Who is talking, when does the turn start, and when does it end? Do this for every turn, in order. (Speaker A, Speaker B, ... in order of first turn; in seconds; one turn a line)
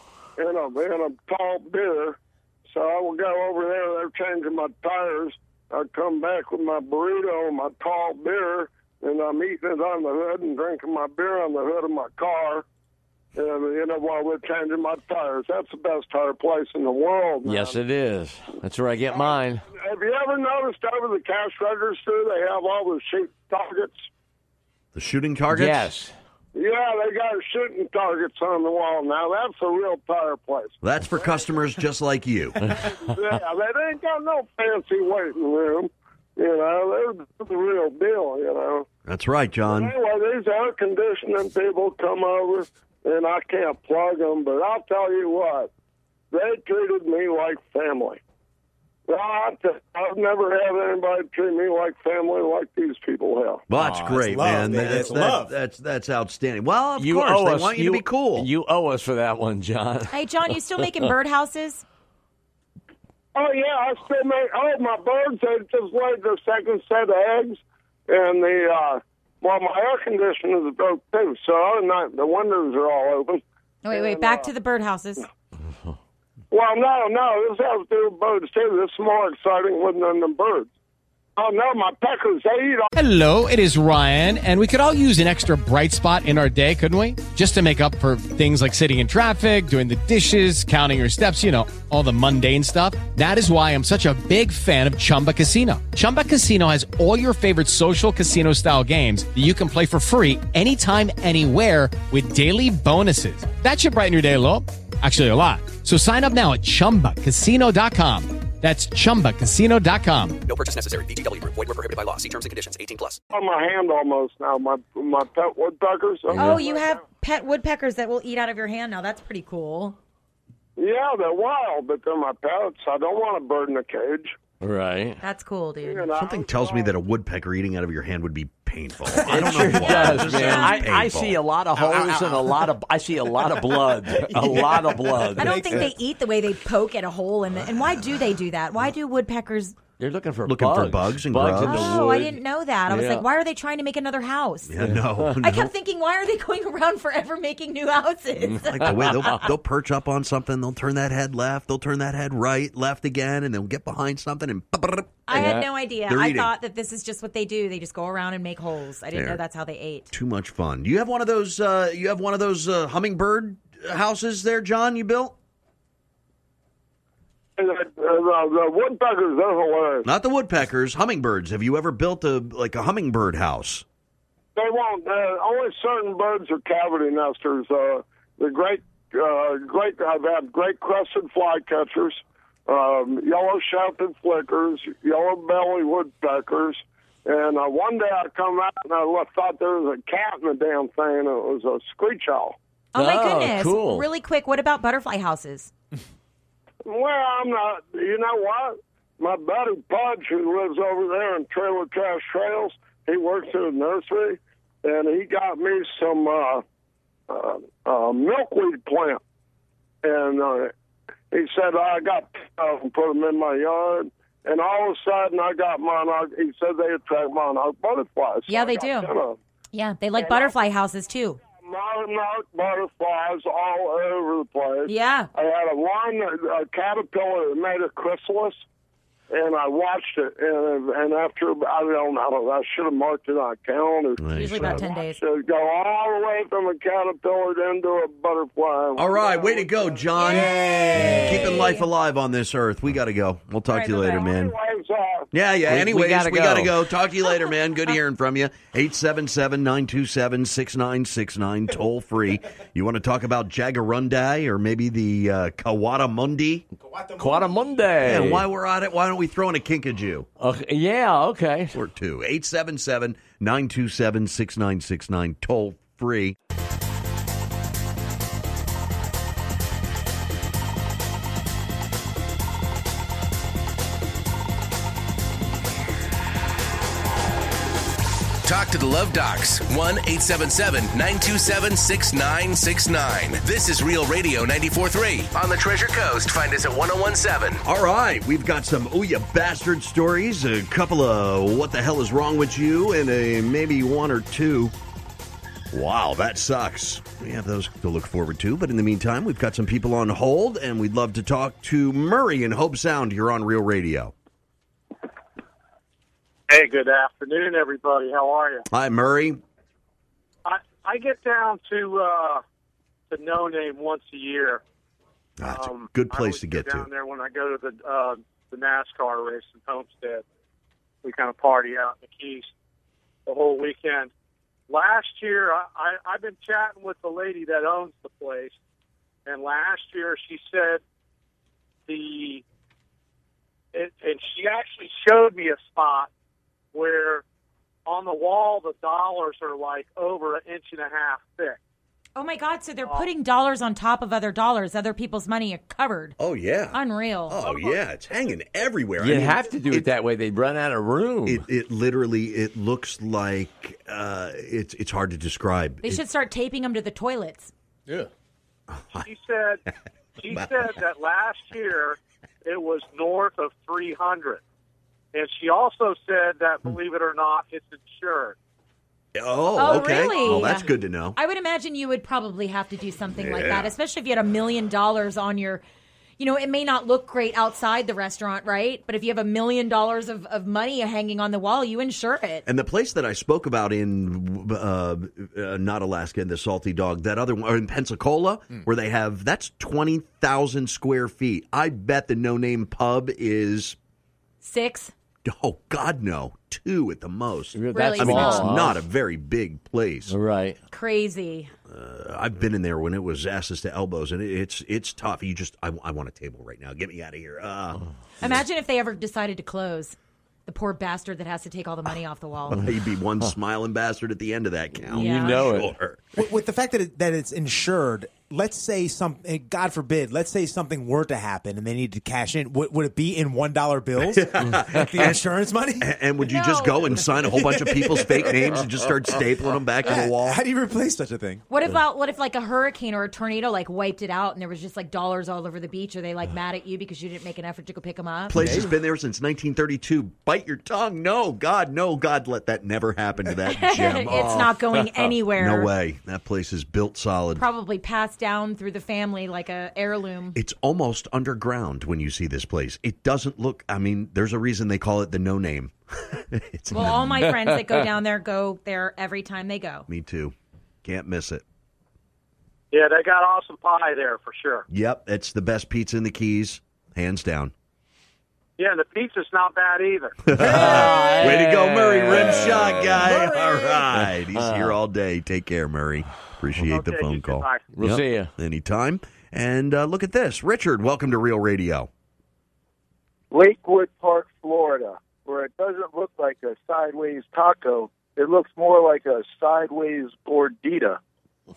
Speaker A: 0.4-12.6
Speaker A: 13.3-17.8
Speaker B: 17.4-19.6
Speaker A: 19.1-24.1
Speaker C: 24.9-25.9
Speaker B: 25.5-26.1
Speaker A: 26.5-31.6
Speaker C: 30.8-32.6
Speaker B: 32.6-33.4
Speaker A: 32.7-38.9
Speaker C: 39.0-39.9
Speaker A: 39.6-45.7
Speaker A: 46.3-48.2
Speaker A: 49.1-53.6
Speaker C: 53.7-58.5
Speaker D: 53.7-55.5
Speaker B: 57.0-60.1
Speaker E: 60.1-61.8
Speaker A: 63.3-74.5
Speaker E: 73.8-75.2
Speaker A: 76.5-80.7
Speaker A: 81.3-82.9
Speaker F: 82.9-110.4
Speaker G: 110.5-113.2
Speaker A: 113.3-117.0
Speaker B: 116.3-116.6
Speaker E: 116.3-120.0
Speaker A: 120.8-124.4
Speaker B: 124.6-125.2
Speaker E: 125.2-126.1
Speaker A: 125.8-127.0
Speaker C: 126.2-131.4
Speaker B: 129.2-135.9
Speaker E: 129.6-130.8
Speaker D: 131.8-132.7
Speaker D: 134.1-135.9
Speaker E: 135.4-139.8
Speaker B: 140.0-143.2
Speaker C: 140.4-142.0
Speaker E: 141.6-144.8
Speaker C: 144.7-145.7
Speaker B: 144.8-145.3
Speaker E: 145.4-149.4
Speaker B: 148.5-149.5
Speaker C: 148.6-155.5
Speaker E: 155.3-160.1
Speaker B: 155.3-155.7
Speaker C: 156.1-156.5
Speaker C: 159.1-159.4
Speaker C: 160.1-165.3
Speaker A: 167.6-170.1
Speaker C: 170.0-173.8
Speaker A: 174.5-192.6
Speaker E: 192.9-195.7
Speaker B: 192.9-194.1
Speaker A: 196.8-206.6
Speaker A: 207.3-209.2
Speaker A: 210.0-210.7
Speaker A: 211.3-219.4
Speaker E: 218.5-219.1
Speaker E: 219.7-221.4
Speaker A: 220.2-220.5
Speaker A: 221.6-228.6
Speaker E: 224.8-225.3
Speaker A: 229.3-240.1
Speaker C: 234.2-234.8
Speaker E: 234.3-235.2
Speaker C: 239.0-244.5
Speaker E: 240.1-241.9
Speaker D: 240.5-241.3
Speaker E: 243.7-244.3
Speaker A: 244.1-245.3
Speaker C: 245.3-256.6
Speaker B: 245.7-246.8
Speaker D: 256.8-257.9
Speaker B: 257.2-258.5
Speaker C: 258.0-260.3
Speaker B: 260.4-261.7
Speaker C: 261.7-266.4
Speaker H: 278.4-287.6
Speaker C: 287.6-294.7
Speaker C: 295.7-304.1
Speaker I: 306.5-308.7
Speaker C: 308.7-309.4
Speaker I: 310.4-312.4
Speaker I: 313.1-314.6
Speaker C: 315.4-316.9
Speaker I: 315.4-320.2
Speaker I: 321.0-322.5
Speaker I: 323.2-324.1
Speaker I: 324.7-328.5
Speaker I: 329.2-330.8
Speaker I: 331.9-332.4
Speaker I: 333.7-336.1
Speaker I: 336.7-337.2
Speaker I: 337.9-341.6
Speaker E: 342.1-346.1
Speaker C: 346.2-349.9
Speaker E: 346.7-347.7
Speaker B: 349.0-351.4
Speaker C: 351.2-356.0
Speaker E: 355.8-357.5
Speaker C: 358.7-359.1
Speaker I: 358.9-359.6
Speaker I: 360.2-364.4
Speaker I: 365.1-368.4
Speaker C: 369.1-371.2
Speaker E: 369.5-375.6
Speaker C: 373.1-373.7
Speaker E: 376.2-382.4
Speaker C: 382.4-393.8
Speaker E: 394.4-394.9
Speaker C: 395.2-400.1
Speaker B: 397.5-398.8
Speaker E: 397.7-398.7
Speaker B: 400.1-400.6
Speaker E: 400.7-401.5
Speaker C: 401.7-408.4
Speaker E: 408.2-412.6
Speaker C: 412.5-416.0
Speaker B: 414.9-415.7
Speaker E: 414.9-415.4
Speaker D: 416.1-425.9
Speaker C: 424.1-425.2
Speaker C: 425.8-430.4
Speaker E: 426.2-427.0
Speaker D: 427.7-428.2
Speaker D: 429.8-431.4
Speaker E: 431.5-438.4
Speaker C: 438.3-444.6
Speaker D: 438.4-438.7
Speaker E: 443.5-445.7
Speaker C: 445.3-447.4
Speaker E: 447.4-450.4
Speaker C: 450.3-457.3
Speaker E: 456.7-459.9
Speaker C: 459.9-461.4
Speaker I: 462.7-464.7
Speaker C: 464.7-467.5
Speaker I: 468.6-470.2
Speaker C: 470.3-481.9
Speaker B: 470.4-473.2
Speaker B: 473.9-474.8
Speaker I: 476.6-477.7
Speaker B: 477.7-478.3
Speaker J: 483.3-490.9